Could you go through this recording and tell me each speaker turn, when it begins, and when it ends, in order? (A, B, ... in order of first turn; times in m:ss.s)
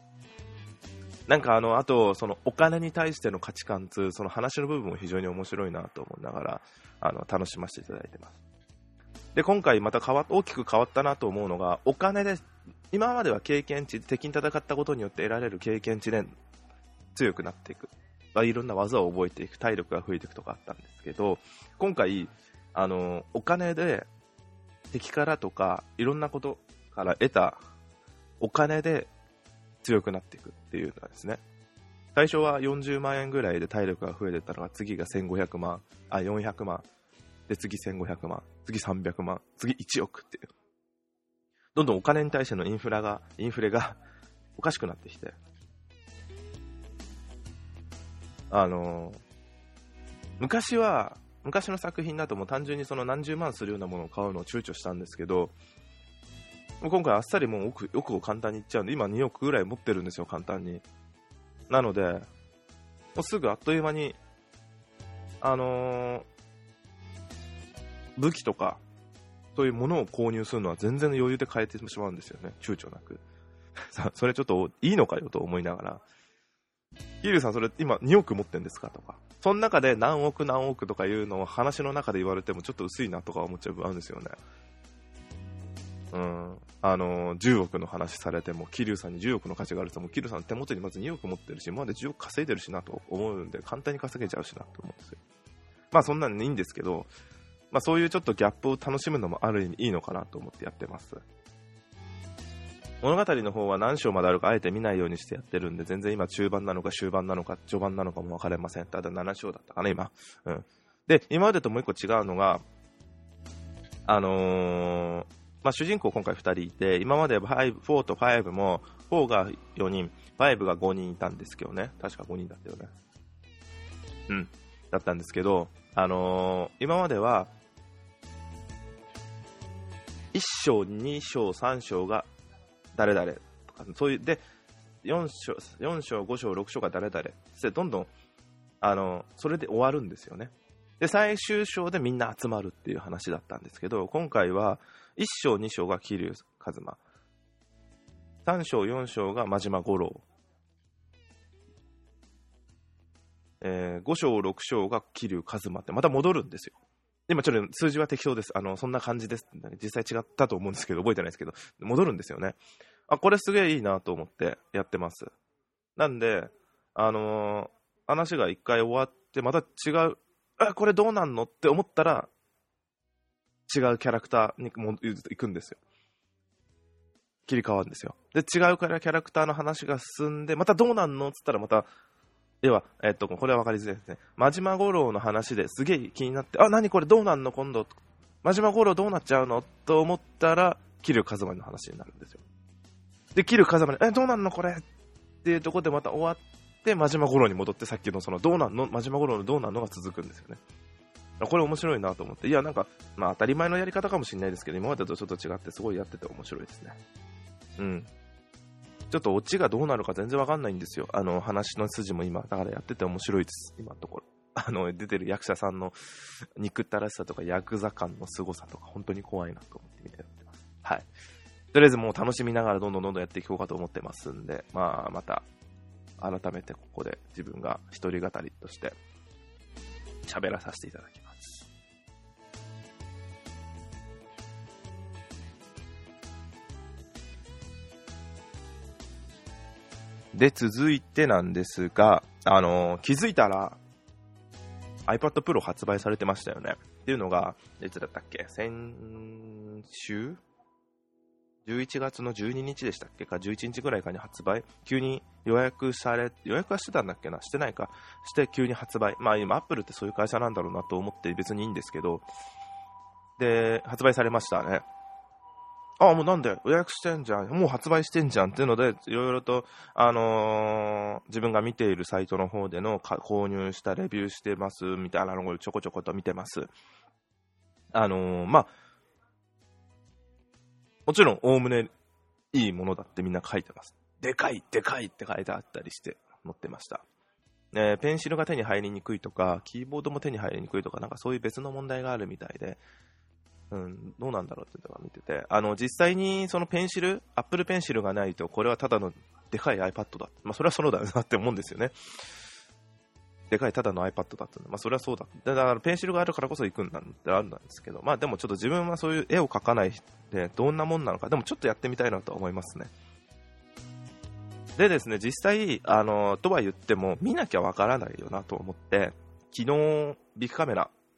0:01.3-0:08.4 A
0:09.4-0:16.3 A
0:17.2-0:24.1 A
0:24.9-0:27.6 A
0:28.4-0:29.1 A
0:29.8-0:31.4 A
0:32.2-0:36.9 A
0:37.5-0:40.5 A
0:41.8-0:44.0 A
0:44.6-0:45.4 A
0:48.5-0:49.2 A
0:50.4-0:55.5 A
0:56.8-1:00.8 A
1:01.7-1:02.3 A
1:03.2-1:04.2 A
1:05.4-1:06.3 A
1:08.2-1:08.8 A
1:09.6-1:13.2 A
1:13.9-1:16.0 A
1:17.2-1:24.4 A
1:26.1-1:35.2 A
1:35.9-1:37.1 A
1:37.7-1:41.2 A
1:43.0-1:52.6 A
1:54.1-2:02.9 A
2:04.3-2:07.5 A
2:10.3-2:12.3 A
2:12.9-2:14.4 A
2:15.0-2:18.1 A
2:18.8-2:27.0 A
2:28.4-2:30.2 A
2:33.6-2:36.8 A
2:37.3-2:45.3 A
2:46.0-2:52.3 A
2:53.7-2:55.8 A
2:57.5-3:01.9 A
3:02.6-3:12.4 A
3:13.4-3:14.8 A
3:15.4-3:20.6 A
3:21.4-3:27.0 A
3:27.8-3:28.1 A
3:29.1-3:41.1 A
3:41.7-3:45.4 A
3:46.2-3:49.0 A
3:50.3-3:51.7 A
4:00.3-4:03.8 A
4:05.1-4:10.4 A
4:11.7-4:22.2 A
4:23.4-4:24.8 A
4:26.0-4:36.7 A
4:37.9-4:38.7 A
4:41.1-4:41.9 A
4:42.5-4:47.0 A
4:47.7-4:52.8 A
4:53.7-5:01.9 A
5:03.5-5:12.9 A
5:14.8-5:20.9 A